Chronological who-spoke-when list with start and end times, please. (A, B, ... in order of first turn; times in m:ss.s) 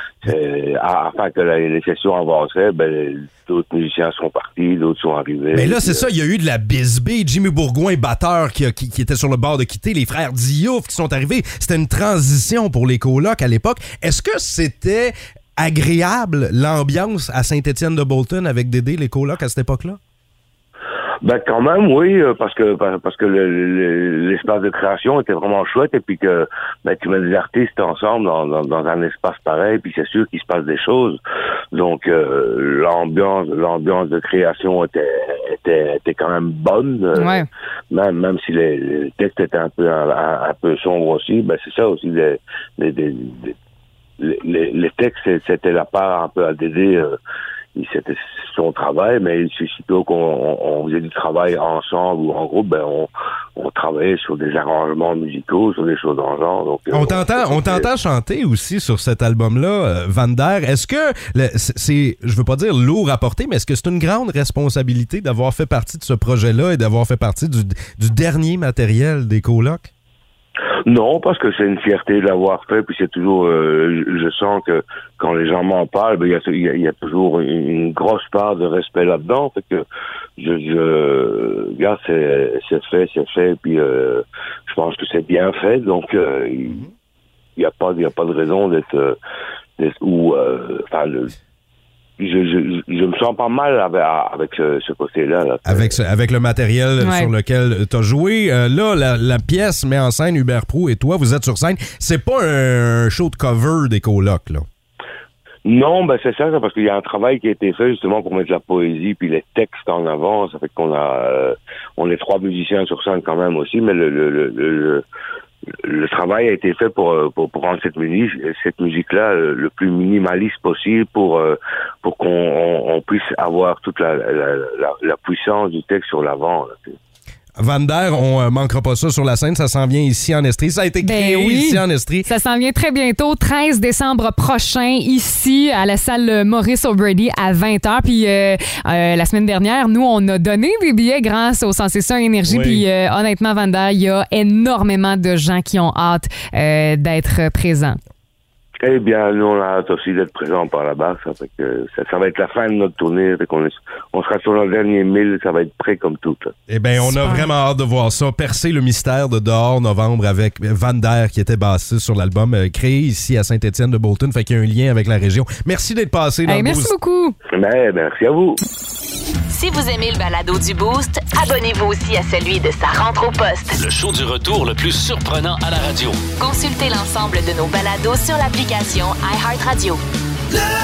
0:00.2-0:06.0 A
0:05.5-0:20.0 B
0:21.2-0:31.2 A
0:31.7-0:37.4 A
0:37.1-0:37.5 C
0:37.9-0:43.6 A
0:44.2-0:47.2 A
0:47.8-0:57.9 A
0:56.9-1:09.9 B
1:10.9-1:19.8 A
1:20.4-1:26.8 A
1:27.6-1:29.2 A
1:29.8-1:31.3 A
1:32.2-1:36.0 A
1:35.6-1:44.6 B
1:37.0-1:37.3 C
1:45.6-1:55.0 A
1:55.8-2:07.0 A
2:07.6-2:12.3 B
2:11.0-2:28.0 C
2:22.5-2:22.8 B
2:28.8-2:36.5 A
2:36.7-2:46.9 B
2:37.0-2:37.5 C
2:46.5-2:47.4 C
2:47.5-2:48.6 A
2:49.5-2:53.8 D
2:53.7-2:56.2 E
2:56.4-3:00.0 D